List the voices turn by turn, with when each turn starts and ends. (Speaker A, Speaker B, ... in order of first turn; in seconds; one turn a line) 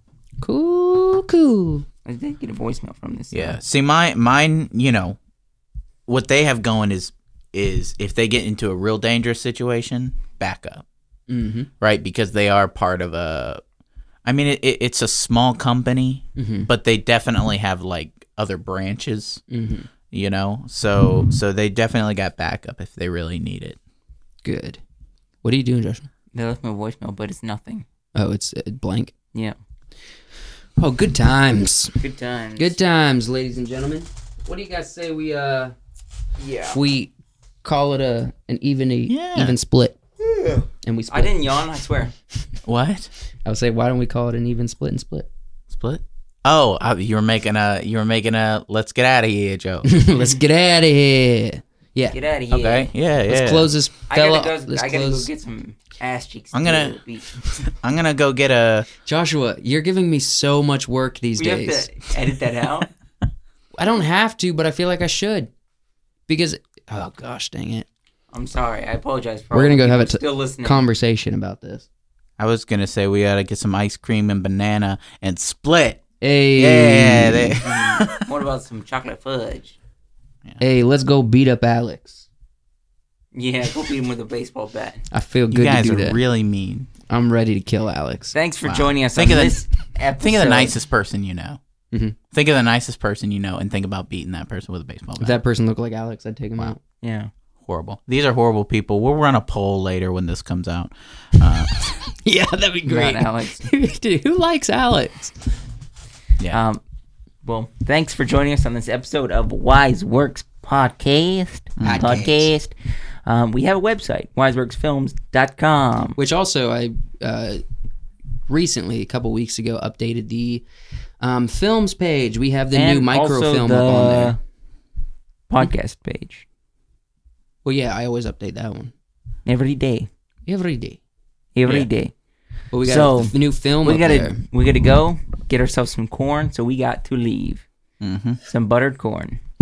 Speaker A: 0.4-1.9
Speaker B: 2.1-3.6
Speaker C: 3.3-5.2
Speaker C: 6.1-10.8
Speaker A: 11.3-11.7
Speaker C: 11.8-13.6
Speaker C: 14.3-19.4
Speaker A: 16.4-16.7
Speaker A: 19.5-19.9
Speaker C: 20.1-23.8
Speaker A: 24.4-24.8
Speaker A: 25.4-26.1
Speaker B: 26.3-27.9
Speaker A: 28.1-29.1
Speaker A: 30.8-32.0
Speaker B: 32.0-32.7
Speaker A: 32.6-35.7
Speaker B: 36.4-36.8
Speaker A: 36.7-37.1
Speaker A: 37.6-40.0
Speaker C: 39.1-39.6
Speaker B: 40.4-42.1
Speaker A: 40.8-41.5
Speaker C: 42.7-43.1
Speaker A: 43.5-45.3
Speaker C: 45.7-49.9
Speaker A: 49.8-52.2
Speaker B: 52.1-52.9
Speaker C: 52.5-53.7
Speaker A: 53.3-55.3
Speaker B: 54.1-57.3
Speaker C: 56.5-57.0
Speaker C: 57.7-58.9
Speaker A: 59.0-61.9
Speaker B: 61.4-62.9
Speaker A: 63.8-65.5
Speaker A: 66.3-67.9
Speaker B: 68.3-70.9
Speaker A: 69.5-71.9
Speaker C: 72.4-76.0
Speaker A: 76.2-77.6
Speaker C: 76.5-78.2
Speaker B: 77.6-79.8
Speaker A: 80.6-82.3
Speaker B: 83.3-85.0
Speaker A: 85.1-86.2
Speaker C: 85.5-86.9
Speaker A: 87.1-88.3
Speaker B: 88.3-90.8
Speaker C: 88.6-89.6
Speaker C: 90.2-91.6
Speaker A: 91.9-92.2
Speaker C: 92.3-95.4
Speaker A: 95.2-96.8
Speaker B: 97.0-97.3
Speaker C: 97.7-102.0
Speaker A: 102.2-105.4
Speaker B: 102.9-103.7
Speaker B: 106.5-106.8
Speaker B: 107.4-112.7
Speaker C: 111.8-112.3
Speaker A: 111.8-112.4
Speaker B: 113.2-116.2
Speaker A: 116.2-117.6
Speaker A: 118.5-120.7
Speaker A: 121.2-124.4
Speaker B: 122.7-124.4
Speaker B: 125.5-126.5
Speaker A: 127.6-128.9
Speaker B: 129.5-130.1
Speaker A: 130.5-131.0
Speaker B: 131.6-132.1
Speaker A: 132.7-134.4
Speaker B: 132.8-137.7
Speaker C: 138.0-138.4
Speaker B: 138.4-139.4